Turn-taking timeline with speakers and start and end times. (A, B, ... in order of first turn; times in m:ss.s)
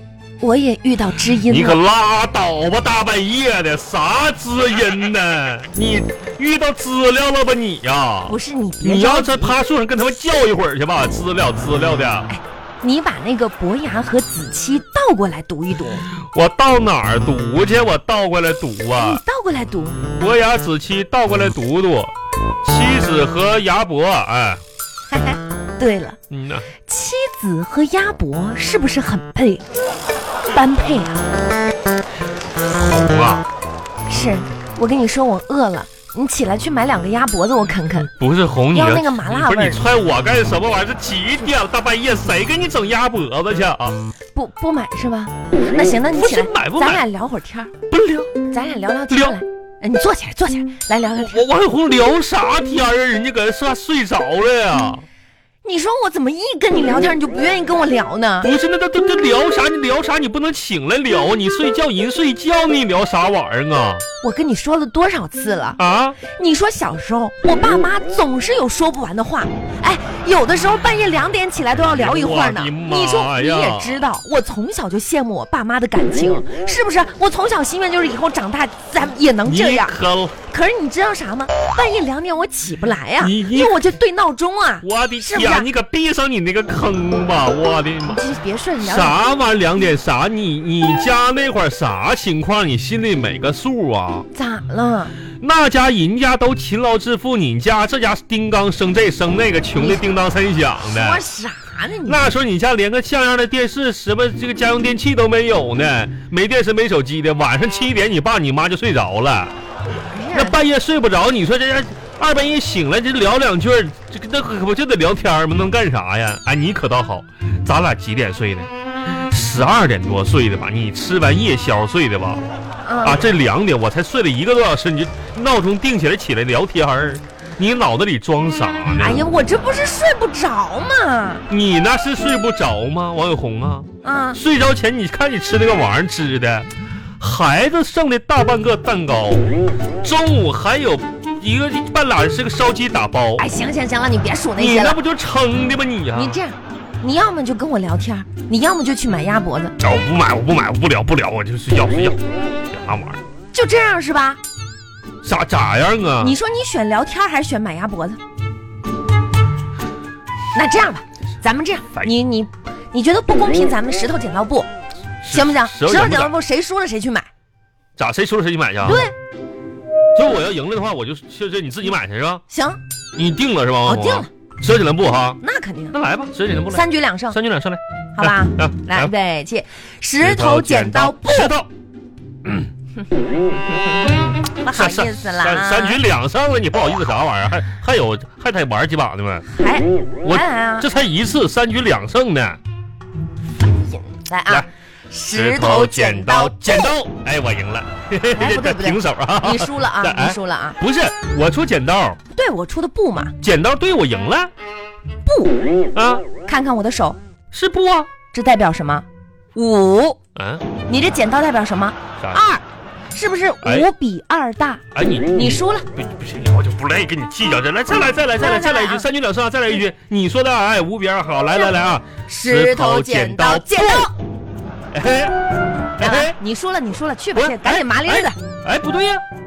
0:00.4-0:01.8 A
0:01.4-0:12.3 B
0:08.3-0:09.6 A
0:12.3-0:16.1 A
0:16.1-0:19.2 B
0:18.9-0:20.0 A
0:20.1-0:24.6 B
0:25.1-0:26.2 A
0:26.3-0:26.7 B
0:26.9-0:29.6 A
0:30.5-0:31.3 A
0:32.8-0:33.4 B
0:34.1-0:38.1 A
0:38.1-0:44.0 B
0:38.7-0:39.8 A
0:44.3-0:47.7 A
0:46.1-0:47.0 B
0:47.9-0:48.3 B
0:48.5-0:51.5 A
0:49.1-0:49.4 B
0:51.2-0:55.0 B
0:55.6-0:58.5 A
0:58.4-1:04.0 B
1:04.2-1:19.9 A
1:05.8-1:06.2 B
1:11.7-1:14.0 B
1:19.4-1:20.4 B
1:20.5-1:25.7 A
1:23.2-1:23.8 B
1:24.8-1:28.2 B
1:28.1-1:29.2 A
1:28.8-1:34.3 B
1:34.3-1:35.2 A
1:35.4-1:41.2 B
1:39.8-1:40.0 A
1:40.8-1:42.2 A
1:42.0-1:49.5 B
1:50.1-1:50.6 A
1:50.3-2:02.4 B
2:02.8-2:03.2 A
2:03.0-2:09.2 B
2:08.9-2:11.4 A
2:11.5-2:16.7 B
2:14.0-2:14.4 A
2:17.2-2:23.4 B
2:23.4-2:25.0 A
2:24.6-2:26.4 B
2:26.1-2:29.7 A
2:29.8-2:33.2 B
2:33.5-2:34.4 A
2:35.2-2:36.4 B
2:36.2-2:38.2 A
2:40.5-2:44.7 A
2:45.2-2:46.4 B
2:45.3-2:47.3 A
2:48.0-2:49.0 B
2:48.8-2:49.1 A
2:50.1-2:52.4 B
2:52.5-2:52.8 A
2:53.2-2:55.4 B
2:53.8-2:54.3 A
2:55.4-2:56.0 A
2:55.9-2:59.1 B
2:56.7-2:57.4 A
2:58.2-3:01.5 A
3:00.2-3:01.7 B
3:04.6-3:06.0 A
3:04.6-3:09.5 B
3:09.5-3:10.9 A
3:10.2-3:12.6 B
3:13.6-3:16.9 A
3:15.3-3:22.2 B
3:18.3-3:20.8 A
3:22.3-3:23.3 A
3:23.4-3:24.5 B
3:25.2-3:25.6 A
3:25.9-3:26.2 B
3:26.4-3:27.2 A
3:27.5-3:28.1 B
3:28.3-3:30.2 A
3:30.4-3:30.6 B
3:30.9-3:35.9 A
3:32.2-3:32.4 B
3:33.6-3:33.9 B
3:34.9-3:44.1 B
3:38.4-3:39.1 A
3:42.2-3:44.1 A
3:44.9-3:45.4 B
3:46.0-3:46.4 B
3:46.0-3:48.4 A
3:47.4-3:49.2 B